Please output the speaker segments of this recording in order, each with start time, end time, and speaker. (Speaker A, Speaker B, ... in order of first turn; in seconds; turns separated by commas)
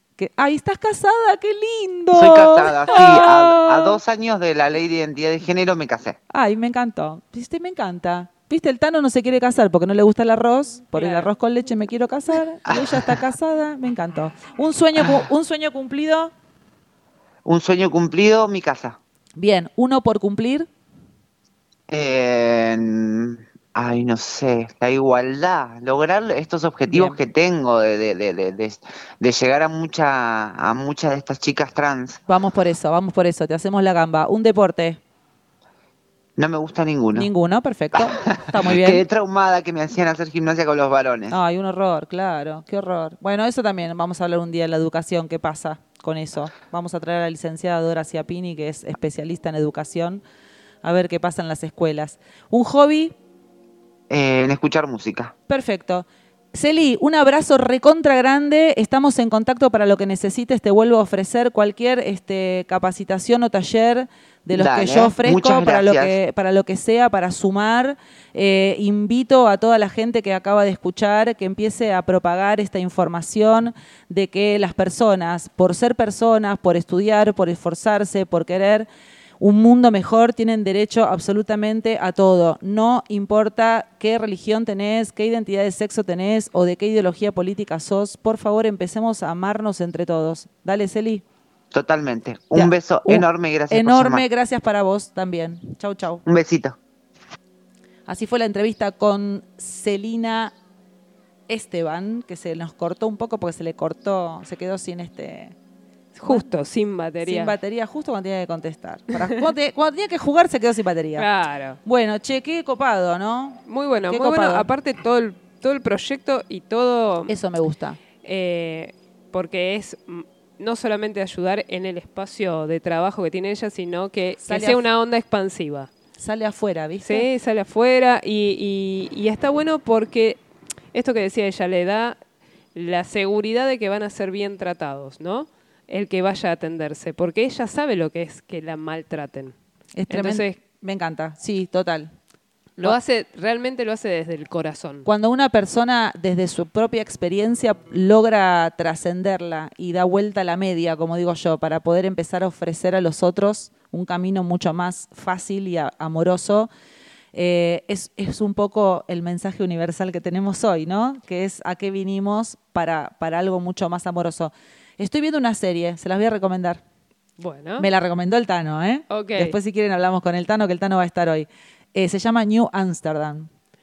Speaker A: 0.2-4.0, Speaker B: 2.1-6.2, Speaker A: 6.3-16.3, Speaker C: 10.9-11.3, Speaker B: 12.7-13.1, Speaker B: 17.4-19.0, Speaker A: 19.4-20.7, Speaker B: 21.9-32.2, Speaker A: 26.9-27.2, Speaker A: 32.3-35.0, Speaker B: 36.4-37.3, Speaker A: 37.1-39.0, Speaker B: 38.5-41.4, Speaker A: 41.3-50.2, Speaker A: 50.8-53.1, Speaker B: 54.1-55.3, Speaker A: 55.5-78.9, Speaker B: 64.5-66.2, Speaker A: 79.4-91.2, Speaker B: 91.7-94.2, Speaker A: 92.5-96.2, Speaker B: 96.2-96.8, Speaker A: 98.1-100.5, Speaker A: 101.5-105.5, Speaker C: 106.1-107.5, Speaker A: 107.2-111.3, Speaker C: 111.2-111.8, Speaker A: 111.8-114.7, Speaker C: 113.7-117.3, Speaker A: 117.3-118.0, Speaker C: 118.2-125.9, Speaker A: 124.4-124.8, Speaker A: 126.2-127.3, Speaker C: 127.0-130.4, Speaker C: 130.9-132.2, Speaker C: 132.7-139.5, Speaker A: 139.9-142.1, Speaker C: 140.1-140.6, Speaker C: 142.8-145.1, Speaker A: 145.0-156.7, Speaker A: 157.3-166.8, Speaker C: 167.4-167.9, Speaker A: 167.8-173.5, Speaker C: 169.1-169.5